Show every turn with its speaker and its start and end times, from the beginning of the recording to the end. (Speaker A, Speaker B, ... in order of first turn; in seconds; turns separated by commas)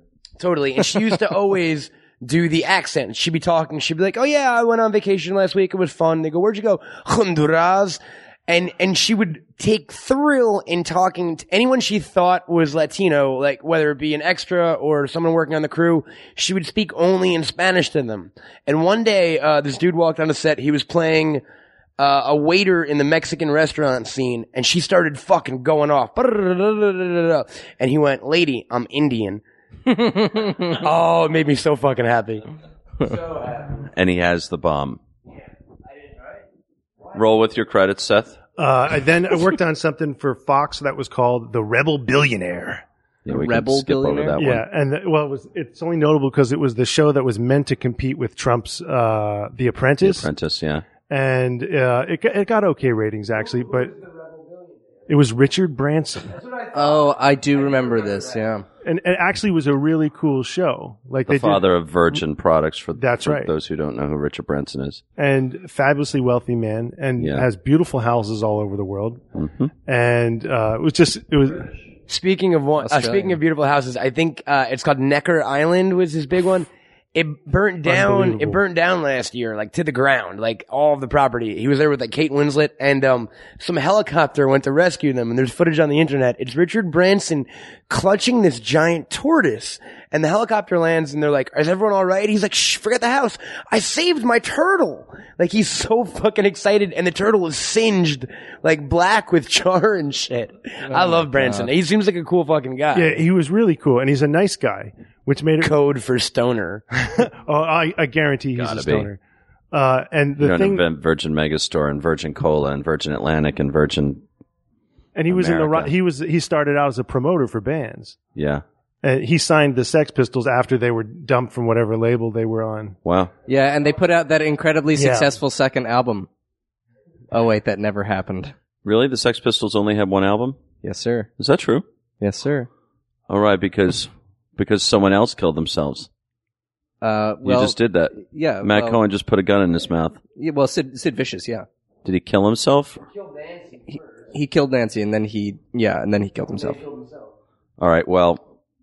Speaker A: 0.4-21.4, Speaker A: 22.0-29.4, Speaker B: 29.9-30.7, Speaker A: 30.6-32.5, Speaker A: 33.0-33.8, Speaker C: 33.8-35.0, Speaker A: 35.9-36.4, Speaker C: 37.1-38.4, Speaker D: 38.6-42.8, Speaker C: 43.2-44.6, Speaker B: 43.3-44.4, Speaker D: 44.4-50.3, Speaker C: 50.0-50.8, Speaker D: 51.1-53.9, Speaker A: 53.8-54.9, Speaker D: 55.1-56.4, Speaker A: 56.3-58.3, Speaker B: 56.7-58.6, Speaker D: 58.8-61.6, Speaker C: 61.3-65.0, Speaker D: 63.0-63.5, Speaker D: 65.2-69.2, Speaker C: 67.2-67.5, Speaker C: 69.3-69.7, Speaker D: 69.8-71.7, Speaker A: 72.1-103.2, Speaker B: 72.8-73.4, Speaker D: 77.8-78.6, Speaker B: 100.8-101.7, Speaker D: 102.9-105.7, Speaker A: 105.6-106.8, Speaker D: 107.0-109.2, Speaker C: 108.5-109.1, Speaker D: 109.7-110.8, Speaker C: 110.4-114.2, Speaker D: 115.1-118.2, Speaker C: 115.3-115.9, Speaker C: 118.3-118.6, Speaker D: 119.0-123.0, Speaker C: 123.0-123.3, Speaker B: 123.5-126.3, Speaker D: 124.9-125.3, Speaker B: 127.3-128.5, Speaker C: 128.8-130.6, Speaker B: 130.8-131.3, Speaker C: 131.4-131.8, Speaker B: 132.2-132.7, Speaker C: 133.3-136.1, Speaker B: 137.0-139.0, Speaker C: 137.4-140.2, Speaker B: 140.3-141.7, Speaker C: 142.0-143.0, Speaker A: 143.0-144.3, Speaker B: 144.3-146.8, Speaker A: 146.5-147.3, Speaker C: 147.8-148.4